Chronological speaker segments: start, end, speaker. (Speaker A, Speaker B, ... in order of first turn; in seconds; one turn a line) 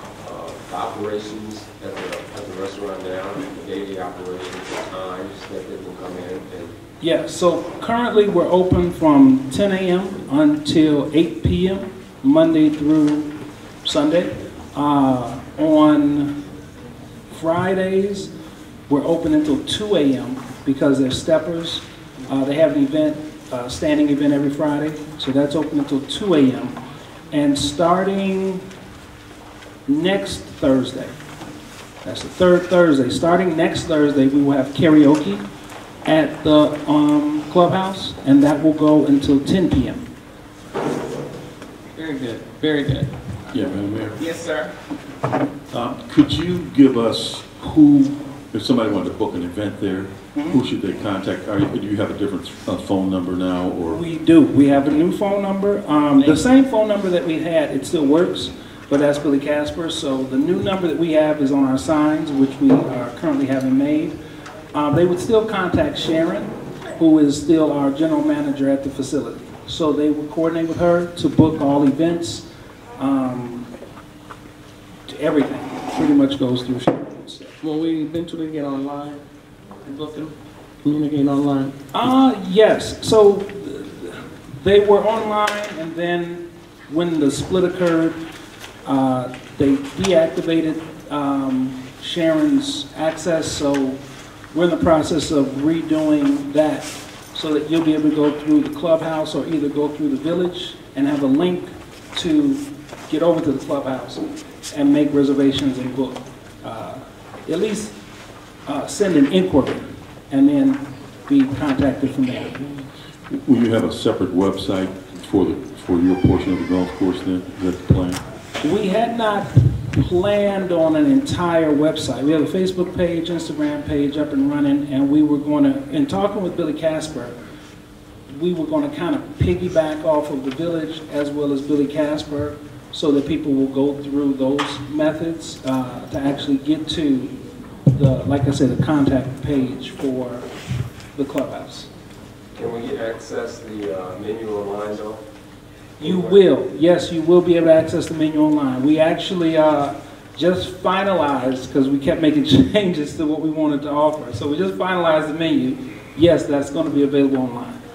Speaker A: 0.2-6.8
Speaker B: 7.0-13.3
Speaker B: 13.8-16.4
Speaker B: 17.3-18.3
Speaker B: 18.9-26.8
Speaker B: 27.3-28.6
Speaker B: 29.9-31.2
Speaker B: 32.0-35.5
Speaker B: 36.0-40.0
Speaker C: 41.9-43.5
Speaker D: 43.5-44.2
Speaker C: 44.1-44.7
Speaker D: 45.7-54.0
Speaker B: 53.9-64.2
Speaker B: 64.7-72.5
Speaker B: 73.0-73.7
Speaker B: 75.1-77.5
Speaker C: 77.6-79.2
Speaker C: 79.8-81.7
Speaker B: 81.9-88.2
Speaker B: 88.8-94.0
Speaker B: 94.5-108.0
Speaker B: 108.7-112.7
Speaker D: 113.3-118.2
Speaker B: 118.6-127.3
Speaker B: 128.3-137.3
Speaker B: 137.9-140.5
Speaker B: 141.1-141.9
Speaker A: 142.6-145.2
Speaker A: 146.0-146.4
Speaker B: 146.0-157.8